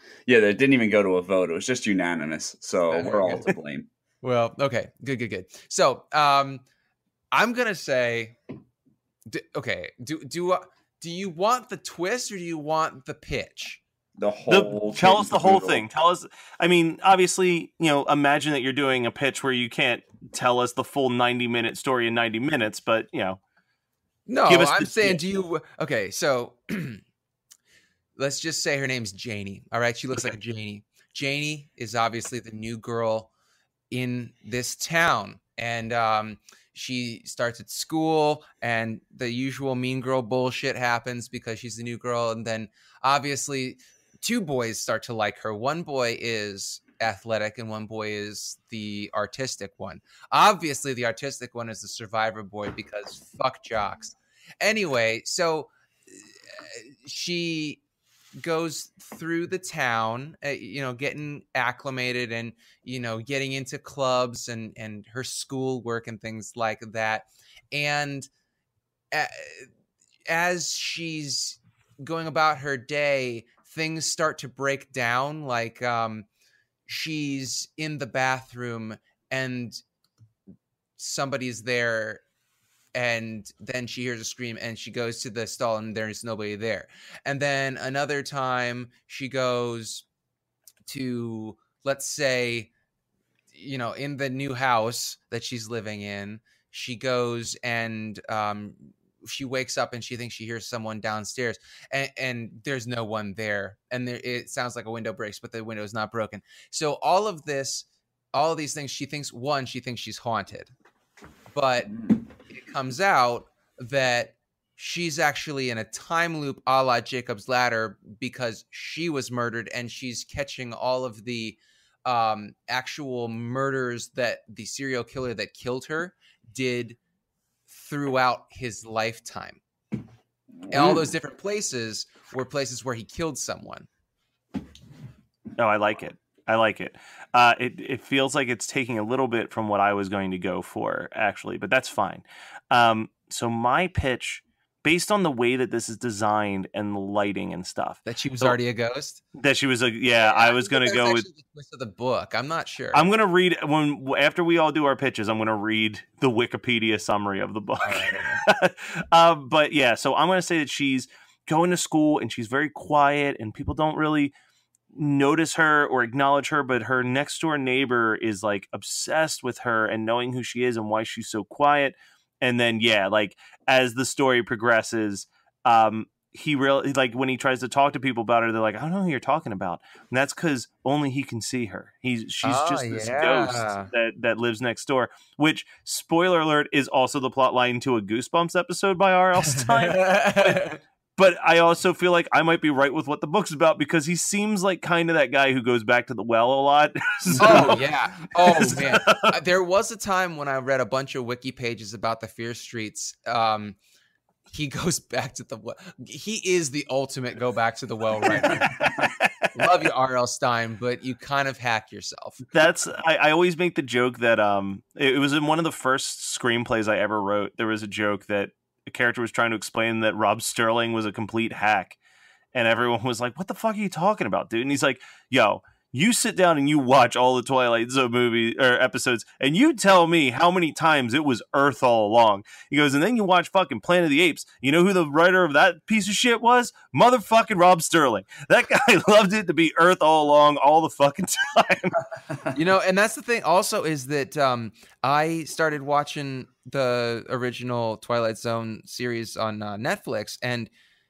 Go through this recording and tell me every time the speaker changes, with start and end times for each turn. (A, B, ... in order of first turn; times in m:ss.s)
0:00.3-0:03.8 A
0:02.9-0:03.5 B
0:04.2-0:06.6 B
0:07.3-0:08.4 B
0:09.3-0:13.8 B
0:14.2-0:15.8 A
0:14.5-0:23.4 C
0:24.2-0:27.0 B
0:24.5-0:25.2 C
0:28.2-0:33.3 B
0:33.9-0:55.7 B
0:56.6-0:57.8 B
0:58.4-1:08.3 B
1:09.1-1:09.7 B
1:10.3-1:16.3 B
1:16.8-1:19.8 B
1:21.0-1:22.2 B
1:23.0-1:30.0 B
1:30.8-1:32.7 B
1:33.5-1:50.7 B
1:51.5-2:07.0 B
2:07.7-2:09.6 B
2:10.7-2:13.9 B
2:15.6-2:28.6 C
2:28.0-2:29.2 B
2:29.4-2:31.3 C
2:30.2-2:33.1 B
2:32.9-2:44.3 C
2:37.8-2:38.4 B
2:44.9-3:17.9 C
3:02.4-3:03.9 B
3:09.5-3:10.8 B
3:17.4-3:23.8 B
3:18.4-3:19.3 C
3:24.5-3:28.7 B
3:28.3-3:29.3 C
3:29.5-3:32.4 B
3:32.5-3:42.0 C
3:42.5-4:02.0 C
4:02.5-4:10.7 B